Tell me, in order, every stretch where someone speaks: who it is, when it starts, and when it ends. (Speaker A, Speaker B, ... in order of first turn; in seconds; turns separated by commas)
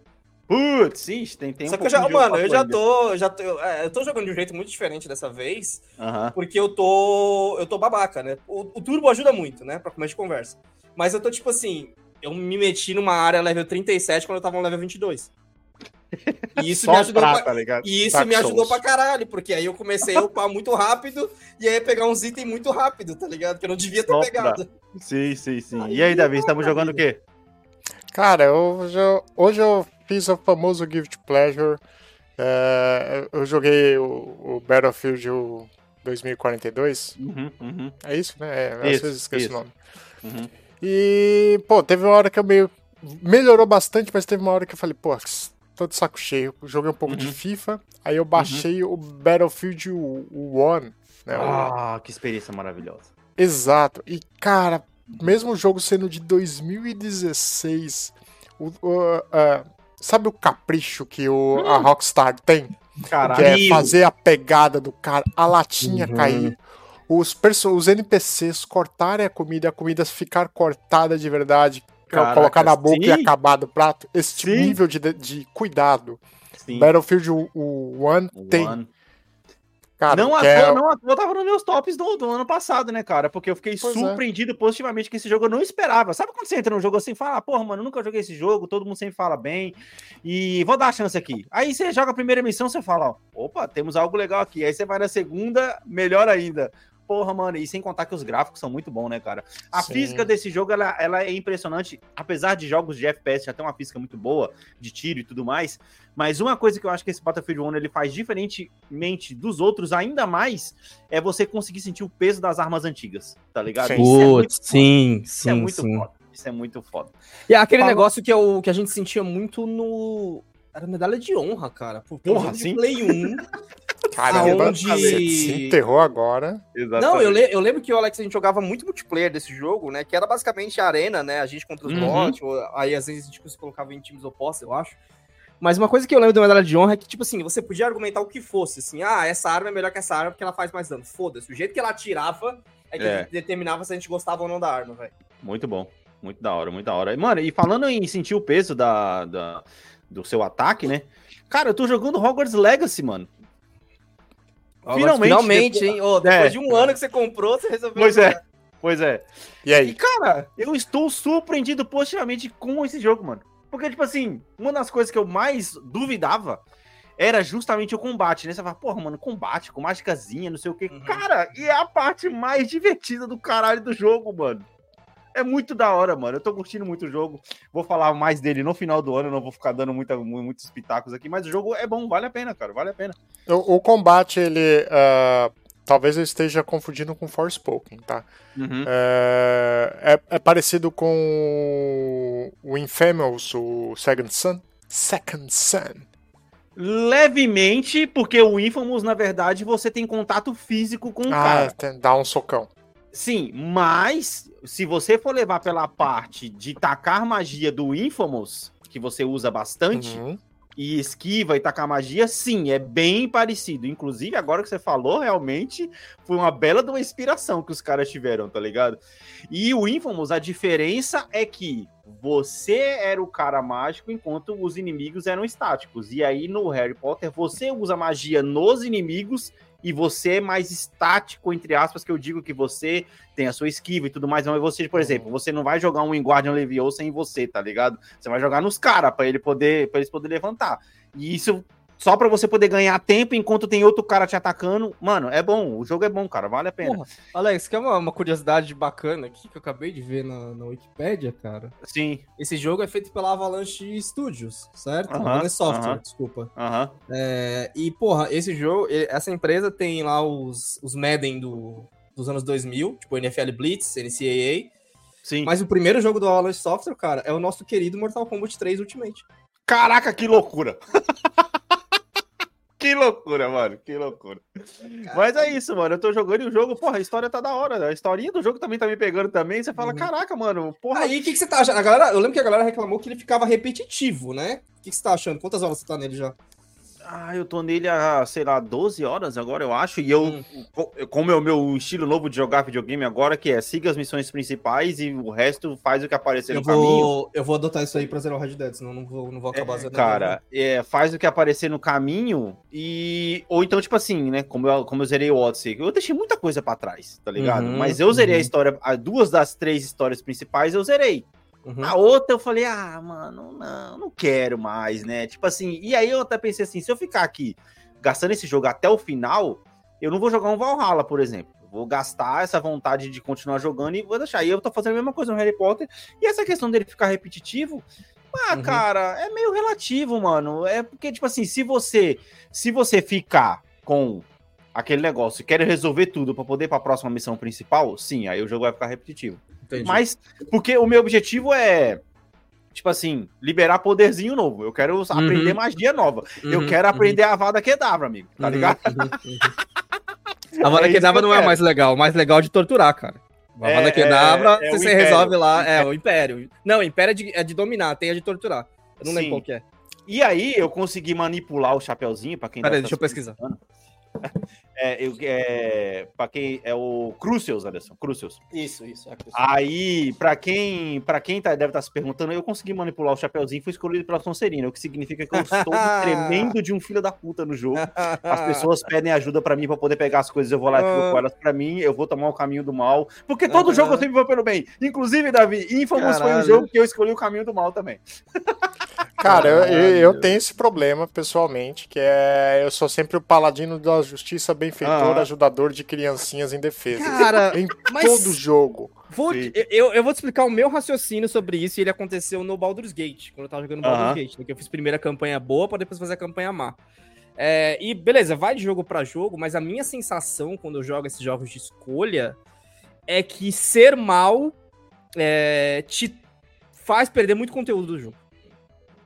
Speaker A: 0.5-2.8, Speaker B: 1.7-5.8, Speaker A: 6.0-6.3, Speaker B: 6.3-15.3, Speaker A: 16.2-18.8, Speaker B: 16.6-24.7, Speaker A: 24.1-27.2, Speaker B: 25.8-27.0, Speaker C: 28.1-31.8, Speaker C: 32.4-37.1, Speaker A: 37.2-37.9, Speaker C: 38.0-39.7, Speaker A: 38.8-39.6, Speaker A: 40.2-40.5, Speaker C: 40.8-51.7, Speaker A: 47.1-47.4, Speaker A: 48.4-48.6, Speaker A: 51.3-53.1, Speaker C: 53.4-62.7, Speaker A: 61.5-61.9, Speaker A: 63.0-63.9, Speaker C: 63.2-76.2, Speaker B: 65.8-66.5, Speaker A: 72.1-73.3, Speaker A: 74.4-74.8, Speaker A: 76.6-76.9, Speaker C: 76.7-78.8, Speaker A: 78.3-78.9, Speaker C: 80.0-80.8, Speaker A: 80.1-117.1, Speaker C: 83.8-84.2, Speaker C: 99.7-100.3, Speaker C: 113.8-114.1, Speaker B: 114.0-116.0, Speaker B: 117.5-123.4, Speaker A: 117.8-118.0, Speaker A: 122.2-123.2, Speaker C: 124.1-126.6, Speaker A: 124.3-125.2, Speaker B: 124.3-125.8, Speaker A: 126.7-127.4, Speaker B: 127.0-135.0, Speaker A: 131.8-132.3, Speaker C: 131.9-132.2, Speaker B: 135.6-145.1, Speaker A: 143.0-143.3, Speaker A: 145.4-153.3, Speaker B: 154.8-158.4, Speaker A: 154.9-156.9, Speaker A: 158.0-159.3, Speaker C: 159.6-160.0, Speaker A: 159.8-166.6, Speaker A: 167.2-174.7, Speaker B: 170.9-171.2, Speaker A: 175.3-183.2, Speaker C: 183.5-188.3, Speaker A: 188.6-188.9, Speaker C: 188.8-196.1, Speaker A: 196.8-201.8, Speaker C: 201.3-202.7, Speaker A: 203.1-210.2, Speaker C: 209.9-210.4, Speaker A: 210.8-247.0, Speaker B: 246.8-251.7, Speaker A: 251.8-252.2, Speaker B: 252.4-256.5, Speaker A: 255.1-256.0, Speaker A: 256.6-256.9, Speaker B: 257.1-264.7, Speaker A: 265.2-265.5, Speaker B: 265.4-269.2, Speaker A: 269.7-270.8, Speaker A: 272.8-281.2, Speaker B: 275.1-275.5, Speaker B: 279.8-280.1, Speaker B: 280.9-286.4, Speaker A: 287.0-297.1, Speaker B: 296.5-300.4, Speaker A: 299.5-311.3, Speaker B: 307.4-308.5, Speaker B: 311.6-311.9, Speaker A: 311.8-342.0, Speaker B: 328.5-328.8, Speaker B: 339.6-340.0, Speaker A: 342.7-349.1, Speaker B: 345.1-345.6, Speaker B: 346.4-347.2, Speaker B: 348.4-349.5, Speaker A: 350.6-351.6, Speaker B: 350.6-359.6, Speaker A: 353.6-355.9, Speaker A: 359.0-359.4, Speaker A: 360.1-363.6, Speaker B: 362.6-363.4, Speaker A: 364.2-368.4, Speaker B: 368.5-369.4, Speaker A: 369.3-388.6, Speaker B: 375.4-376.5, Speaker B: 377.8-378.6, Speaker B: 380.7-381.2, Speaker B: 383.5-384.1, Speaker B: 385.9-386.7, Speaker C: 389.2-399.0, Speaker A: 389.2-390.4, Speaker B: 389.2-389.8, Speaker A: 394.8-395.3, Speaker B: 396.9-398.4, Speaker B: 399.1-406.8, Speaker A: 399.3-399.5, Speaker A: 403.8-404.2, Speaker B: 407.4-412.4, Speaker B: 413.1-414.5, Speaker B: 415.1-416.2, Speaker B: 416.8-418.2